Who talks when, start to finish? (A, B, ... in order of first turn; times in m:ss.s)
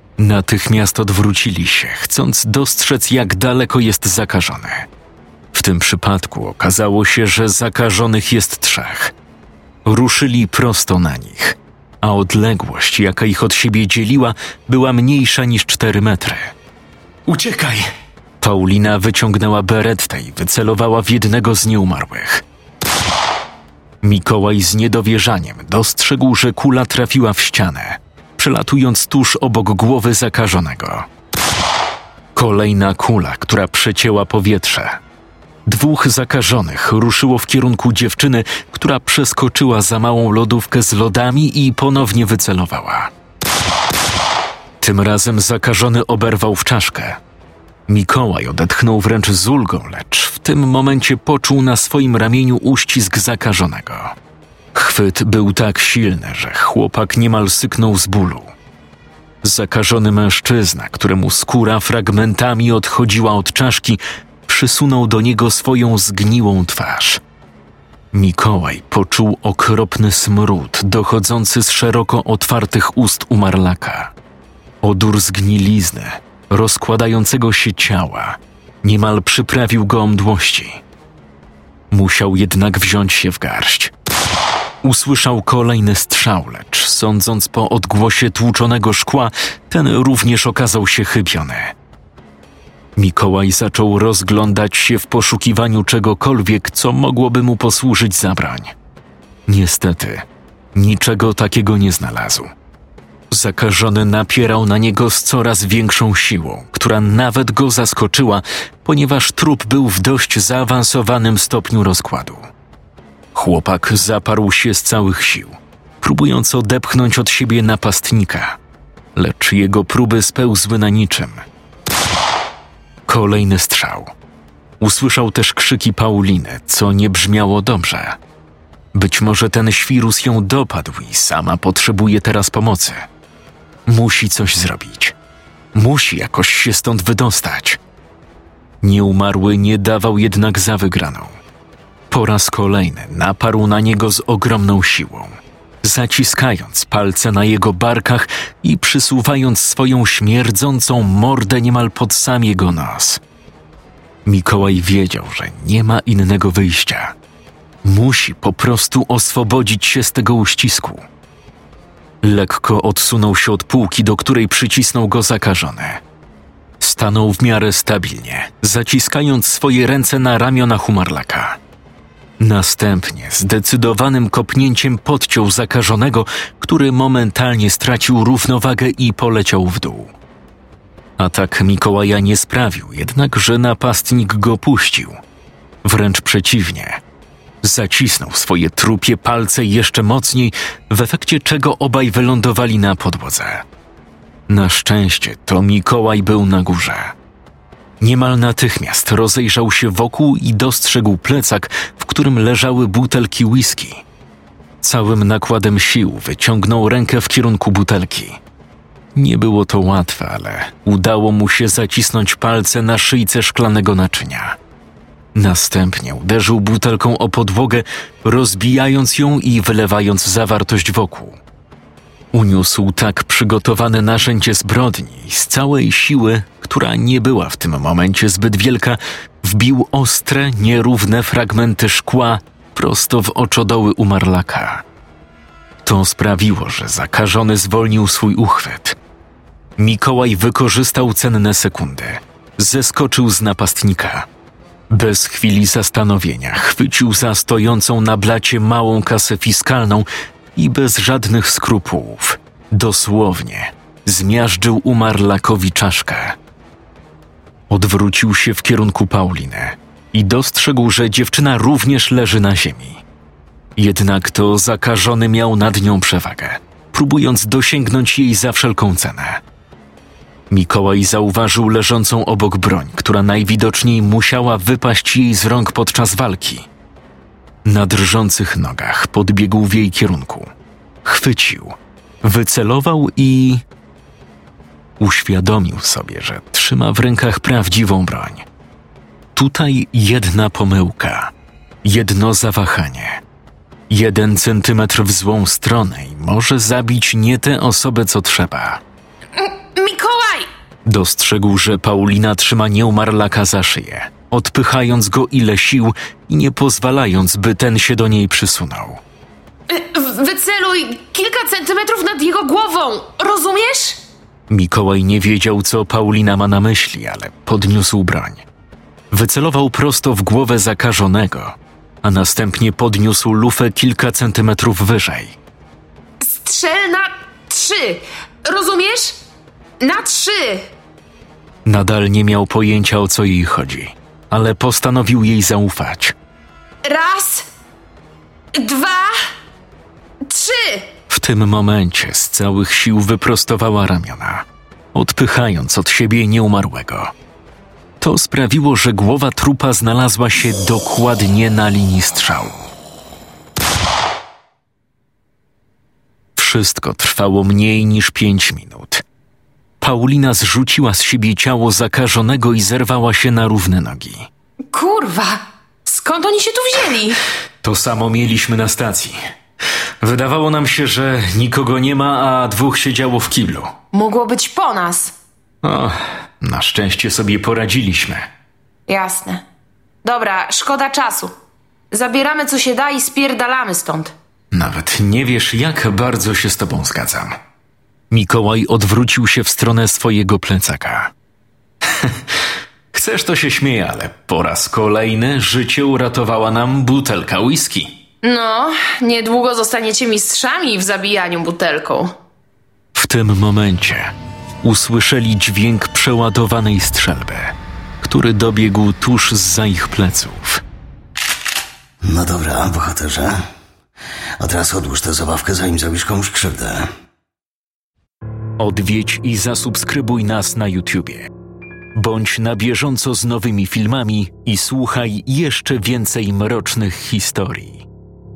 0:00.2-0:04.9 A
0:05.5-0:09.1 A
0:09.8-0:16.5 A
0:17.3-0:17.9 A
0:18.4-0:22.4 A
0:24.0-0:31.1 A
0:32.3-0:35.0 A
0:35.6-0:43.1 A
0:44.8-0:47.2 A
0:47.9-0:54.2 A
0:54.7-0:58.5 A
0:59.4-1:07.2 A
1:08.1-1:14.1 A
1:14.8-1:20.8 A
1:21.9-1:23.9 A
1:24.8-1:31.7 A
1:33.0-1:38.7 A
1:39.5-1:42.5 A
1:43.3-1:52.5 A
1:53.3-1:58.6 A
1:59.1-2:01.4 A
2:03.1-2:04.1 A
2:04.8-2:08.2 A
2:08.9-2:13.1 A
2:13.9-2:15.1 A
2:15.7-2:17.8 A
2:18.8-2:21.4 A
2:22.1-2:33.2 A
2:34.2-2:37.1 A
2:37.8-2:41.0 A
2:42.2-2:46.0 A
2:46.8-2:51.6 A
2:52.4-3:00.1 A
3:01.2-3:05.2 A
3:05.8-3:07.0 A
3:07.6-3:13.6 A
3:14.5-3:17.1 A
3:18.0-3:24.0 A
3:24.8-3:28.4 A
3:29.1-3:34.6 A
3:35.3-3:41.4 A
3:42.3-3:54.8 A
3:55.8-3:59.0 A
3:59.8-4:04.3 A
4:04.9-4:16.4 A
4:17.7-4:23.0 A
4:23.8-4:29.4 A
4:30.5-4:36.7 A
4:37.6-4:40.5 A
4:41.0-4:43.6 A
4:45.0-4:48.4 A
4:49.3-4:51.3 A
4:51.8-4:53.2 A
4:53.9-4:58.8 A
4:59.3-5:00.5 B
5:00.8-5:09.0 A
5:09.7-5:14.0 B
5:14.5-5:18.4 A
5:19.1-5:25.4 A
5:26.2-5:29.2 B
5:29.8-5:30.7 B
5:31.6-5:36.1 A
5:36.8-5:37.4 B
5:38.5-5:39.3 B
5:40.2-5:40.9 B
5:41.1-5:47.1 A
5:48.0-5:52.6 A
5:56.4-5:59.0 A
5:59.8-6:04.3 A
6:04.7-6:07.2 B
6:07.6-6:09.2 A
6:10.0-6:13.7 A
6:13.9-6:15.1 B
6:15.6-6:18.3 A
6:18.9-6:19.4 B
6:20.0-6:21.3 B
6:21.9-6:24.1 B
6:24.5-6:27.4 A
6:28.1-6:31.1 A
6:31.8-6:32.4 A
6:32.9-6:38.0 A
6:38.2-6:42.1 B
6:42.9-6:50.6 A
6:52.0-6:53.5 C
6:54.4-6:56.9 C
6:58.6-7:01.3 A
7:01.9-7:07.8 A